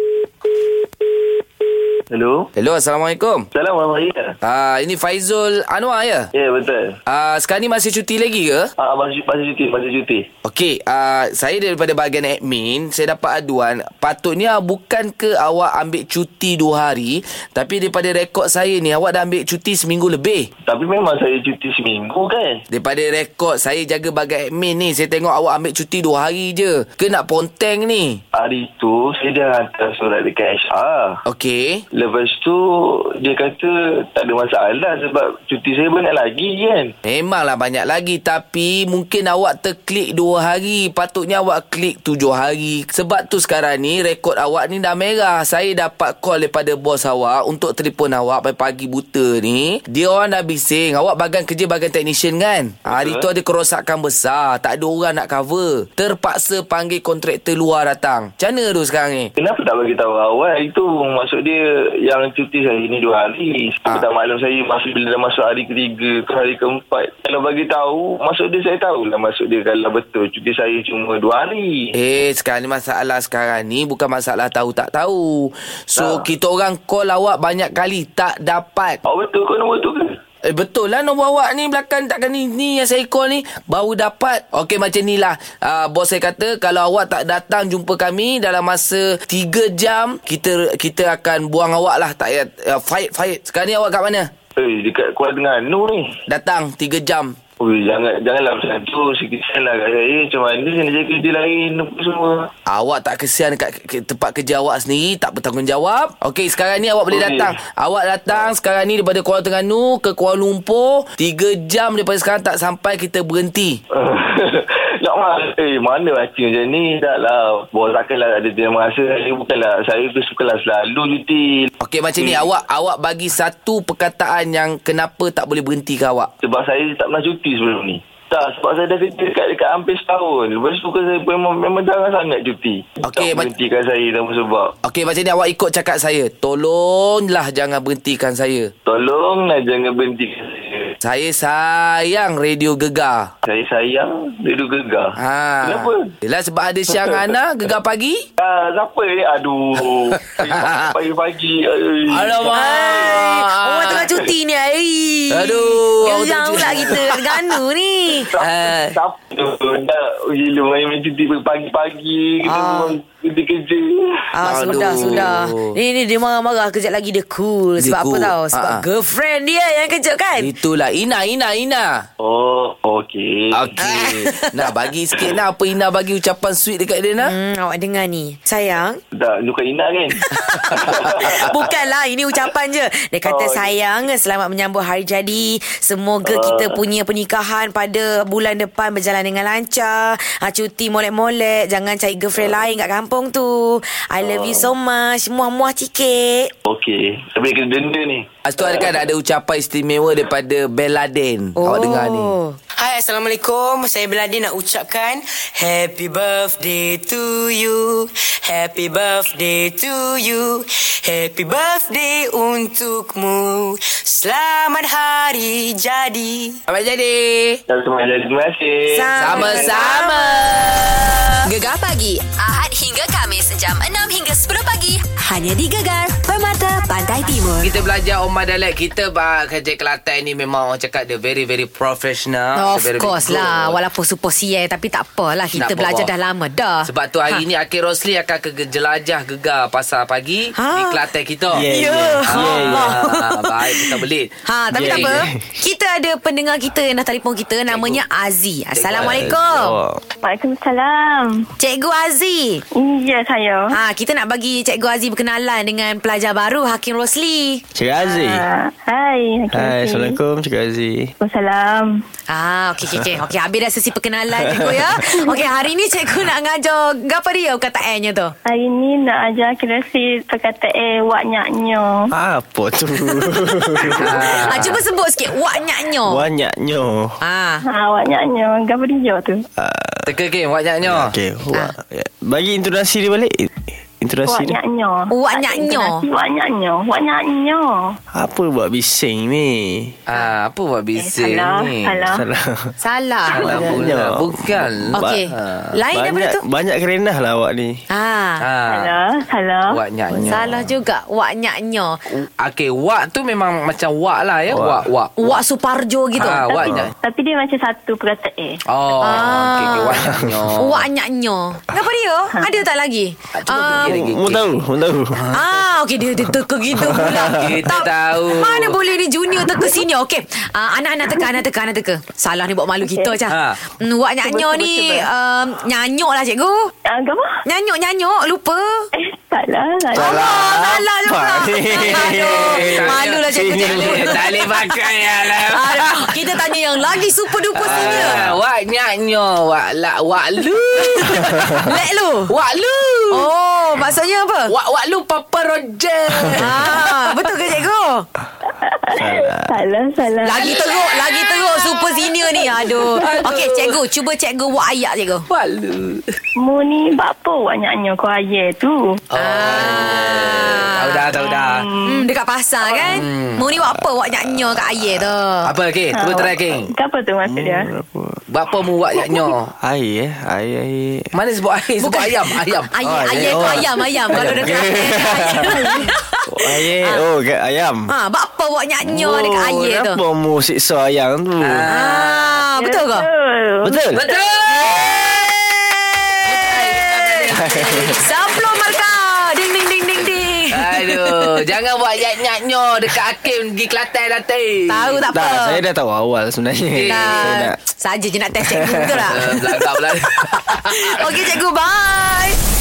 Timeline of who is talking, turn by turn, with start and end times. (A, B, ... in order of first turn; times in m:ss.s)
0:02.1-0:02.5 A
0:02.6-0:03.5 B
0:03.5-0:04.3 A
0:04.4-0:06.3 B
0:06.4-0:07.0 A
0:07.1-0:08.7 B
0:08.8-0:10.3 A
0:10.4-0:20.5 B
0:20.7-0:22.6 A
0:22.7-0:28.2 B
0:28.4-0:31.2 A
0:31.3-0:31.8 B
0:31.9-0:36.9 A
0:37.0-0:59.3 B
0:52.9-0:53.3 A
0:59.4-1:11.9 A
1:12.0-1:19.0 B
1:16.0-1:16.3 A
1:19.0-1:20.2 A
1:20.4-1:34.3 B
1:34.6-1:36.2 A
1:36.3-1:37.4 B
1:37.6-1:42.5 A
1:42.7-1:53.8 B
1:47.1-1:47.6 A
1:53.9-2:02.5 A
2:01.8-2:06.3 B
2:06.4-2:14.7 A
2:13.0-2:13.5 B
2:14.8-2:18.7 B
2:18.9-2:21.0 A
2:21.0-2:23.3 B
2:23.4-2:26.1 A
2:25.2-2:28.2 B
2:26.9-2:27.3 A
2:28.4-2:33.3 A
2:30.2-2:31.0 B
2:32.1-2:34.1 B
2:32.5-2:38.3 C
2:35.3-2:37.6 B
2:38.2-2:45.4 A
2:38.4-2:39.0 B
2:42.4-2:43.0 C
2:44.3-2:50.5 C
2:44.4-2:45.8 B
2:47.8-2:48.8 B
2:50.4-2:52.1 B
2:52.2-2:53.8 A
2:53.5-2:57.3 B
2:53.8-2:54.7 C
2:57.2-2:59.0 C
2:59.1-3:01.7 A
3:00.3-3:16.5 C
3:00.7-3:01.4 B
3:03.2-3:03.7 A
3:06.2-3:06.8 A
3:14.2-3:14.7 A
3:16.7-3:19.0 A
3:18.4-3:22.4 B
3:21.6-3:22.6 C
3:22.8-3:36.6 D
3:36.7-3:37.6 B
3:37.7-3:39.9 A
3:38.9-3:40.9 C
3:39.2-3:41.3 B
3:41.5-3:47.7 E
3:47.6-3:53.8 B
3:52.6-3:57.4 C
3:55.5-3:56.1 B
3:56.9-4:01.7 B
4:00.6-4:01.0 C
4:01.5-4:03.0 F
4:01.7-4:09.8 C
4:02.3-4:05.1 B
4:04.7-4:05.4 F
4:07.7-4:08.0 B
4:08.8-4:09.3 B
4:09.0-4:10.0 F
4:10.2-4:11.4 G
4:11.6-4:12.6 C
4:12.7-4:13.7 G
4:13.7-4:17.6 C
4:17.8-4:18.4 F
4:18.0-4:20.2 G
4:19.5-4:21.1 F
4:21.2-4:22.0 G
4:22.3-4:28.3 C
4:24.4-4:25.0 F
4:28.5-4:32.1 G
4:32.1-4:34.7 F
4:33.2-4:36.2 C
4:34.0-4:34.8 B
4:36.0-4:37.2 F
4:37.2-4:37.6 C
4:37.6-4:39.4 G
4:39.6-4:40.1 F
4:40.1-4:41.2 B
4:40.8-4:44.6 F
4:44.2-4:48.0 G
4:45.1-4:46.0 C
4:48.1-4:50.0 F
4:50.1-4:52.1 B
4:51.0-4:52.3 G
4:52.1-4:52.8 F
4:52.8-4:53.5 C
4:53.3-4:55.7 B
4:53.3-4:55.2 F
4:55.0-4:56.4 C
4:55.9-4:57.8 F
4:57.9-4:58.4 C
4:58.4-4:58.9 B
4:58.7-5:00.4 G
4:59.7-5:00.4 B
5:00.3-5:02.0 C
5:02.1-5:05.4 B
5:04.5-5:04.9 F
5:05.2-5:06.6 C
5:06.2-5:06.9 B
5:06.2-5:08.6 G
5:08.7-5:10.9 B
5:09.0-5:10.0 C
5:10.1-5:10.3 F
5:10.6-5:13.9 C
5:13.4-5:14.5 B
5:13.8-5:15.2 F
5:15.1-5:15.5 B
5:15.3-5:26.7 C
5:16.7-5:17.5 F
5:17.2-5:18.8 B
5:22.8-5:23.2 G
5:23.3-5:23.6 B
5:24.3-5:25.0 G
5:26.9-5:27.3 G
5:27.5-5:28.9 C
5:29.0-5:30.3 G
5:29.9-5:34.3 F
5:30.0-5:34.6 C
5:32.0-5:36.2 B
5:35.5-5:38.2 C
5:37.6-5:41.7 B
5:37.6-5:38.4 F
5:40.8-5:42.3 C
5:42.3-5:43.3 B
5:43.1-5:44.5 C
5:44.5-5:47.2 B
5:46.3-5:48.1 C
5:48.6-5:50.8 G
5:49.0-5:49.5 F
5:50.2-5:55.3 C
5:50.4-5:51.7 B
5:52.4-5:53.8 B
5:55.3-5:56.2 B
5:56.4-5:58.9 G
5:59.1-6:01.7 B
5:59.2-6:01.1 C
6:01.2-6:02.1 G
6:01.8-6:05.5 C
6:02.7-6:03.5 B
6:05.4-6:06.7 B
6:05.9-6:07.7 G
6:07.3-6:08.2 F
6:08.3-6:09.5 B
6:09.6-6:11.1 F
6:11.1-6:14.8 B
6:11.8-6:17.0 C
6:12.9-6:17.9 F
6:17.9-6:20.0 C
6:18.8-6:21.7 F
6:21.4-6:22.4 B
6:21.7-6:23.1 C
6:22.6-6:24.3 G
6:23.6-6:24.0 F
6:24.0-6:25.2 B
6:24.5-6:31.4 C
6:26.2-6:28.8 B
6:27.4-6:28.0 F
6:30.5-6:35.0 B
6:34.7-6:35.6 C
6:35.1-6:37.6 F
6:36.7-6:37.3 B
6:36.9-6:39.6 C
6:38.4-6:39.2 F
6:39.1-6:41.2 B
6:40.2-6:42.4 C